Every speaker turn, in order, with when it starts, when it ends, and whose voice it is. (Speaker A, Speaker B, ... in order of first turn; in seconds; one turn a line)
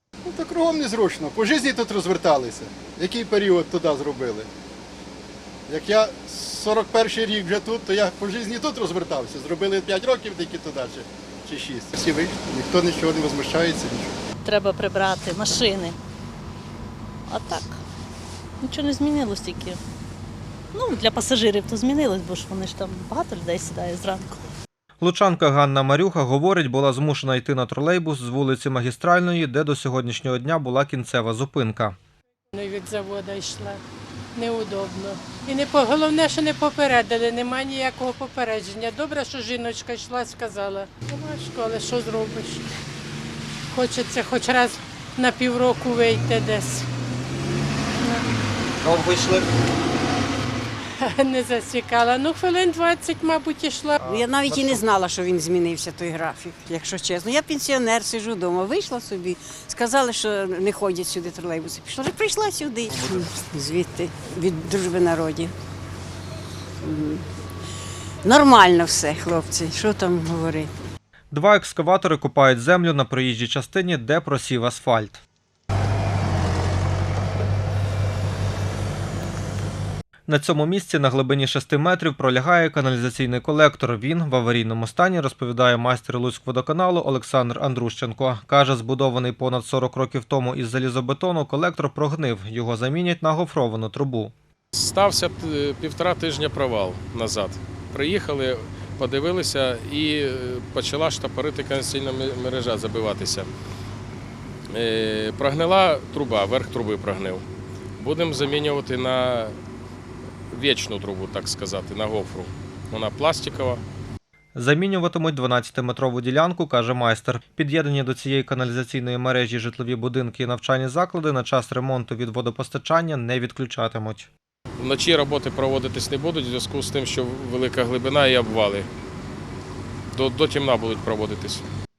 Speaker A: 0.2-4.5
Speaker A: 5.7-14.1
Speaker B: 14.4-15.9
Speaker B: 17.3-17.8
Speaker B: 18.6-19.8
Speaker B: 20.7-24.4
Speaker C: 25.0-31.9
Speaker D: 32.5-33.8
Speaker D: 34.3-42.6
Speaker D: 43.7-46.9
Speaker D: 48.0-48.2
Speaker C: 48.8-49.5
Speaker D: 51.0-54.0
Speaker E: 54.0-65.5
Speaker C: 54.0-54.8
Speaker E: 66.8-67.2
Speaker E: 68.2-70.7
Speaker C: 71.3-75.2
Speaker C: 80.3-94.3
Speaker F: 94.7-103.5
Speaker F: 104.7-107.4
Speaker F: 108.0-109.5
Speaker F: 110.5-113.8
Speaker C: 114.5-124.3
Speaker F: 124.8-128.9
Speaker F: 130.1-131.6